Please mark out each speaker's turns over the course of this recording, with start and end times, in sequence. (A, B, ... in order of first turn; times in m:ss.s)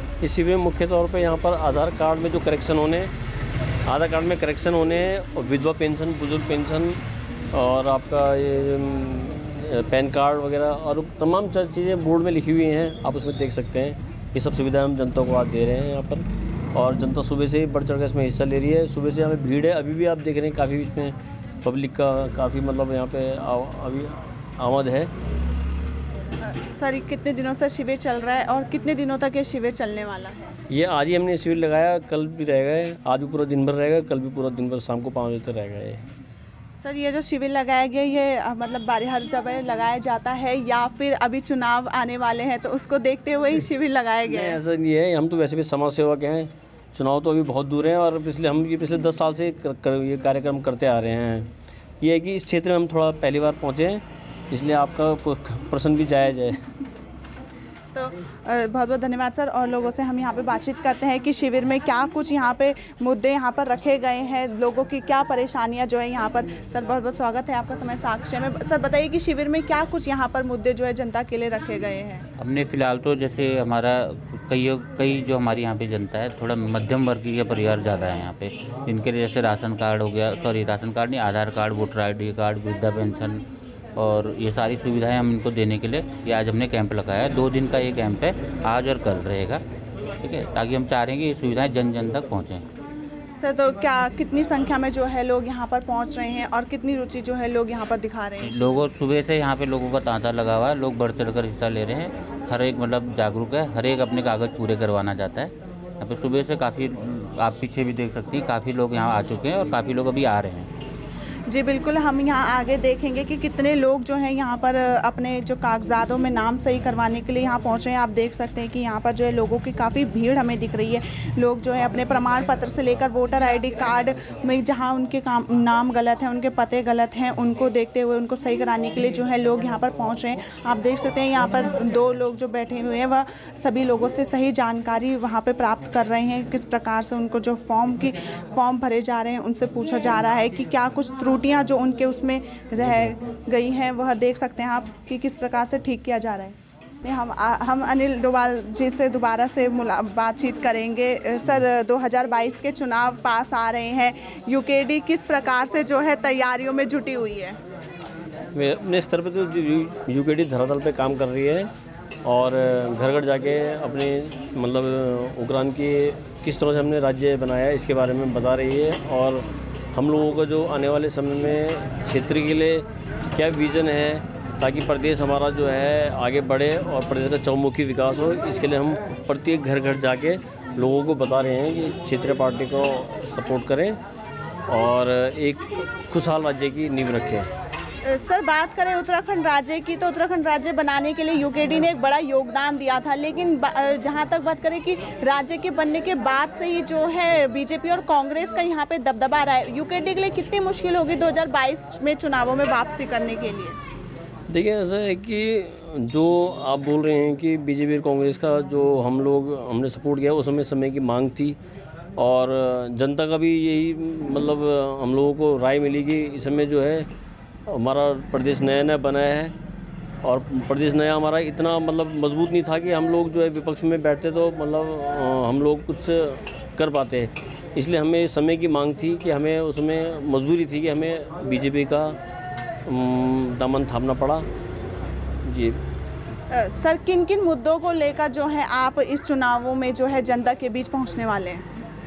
0:00.2-0:03.1 A
0:03.8-0:25.1 A
0:26.4-0:30.5 B
0:30.7-0:36.0 A
0:36.8-0:44.6 B
0:44.3-0:51.5 A
0:52.0-0:56.6 A
0:57.9-1:12.2 B
1:12.4-1:23.4 C
1:24.0-1:29.6 C
1:30.2-1:32.6 C
1:33.4-1:38.6 B
1:38.4-1:50.7 C
1:51.5-2:37.6 B
2:38.6-2:41.7 A
2:42.2-3:04.0 A
3:04.7-3:07.5 A
3:08.0-3:23.8 B
3:24.5-3:31.6 A
3:32.2-3:37.1 A
3:37.7-3:39.5 A
3:40.2-3:52.2 A
3:52.8-3:54.5 A
3:55.4-3:55.8 A
3:56.5-4:01.6 B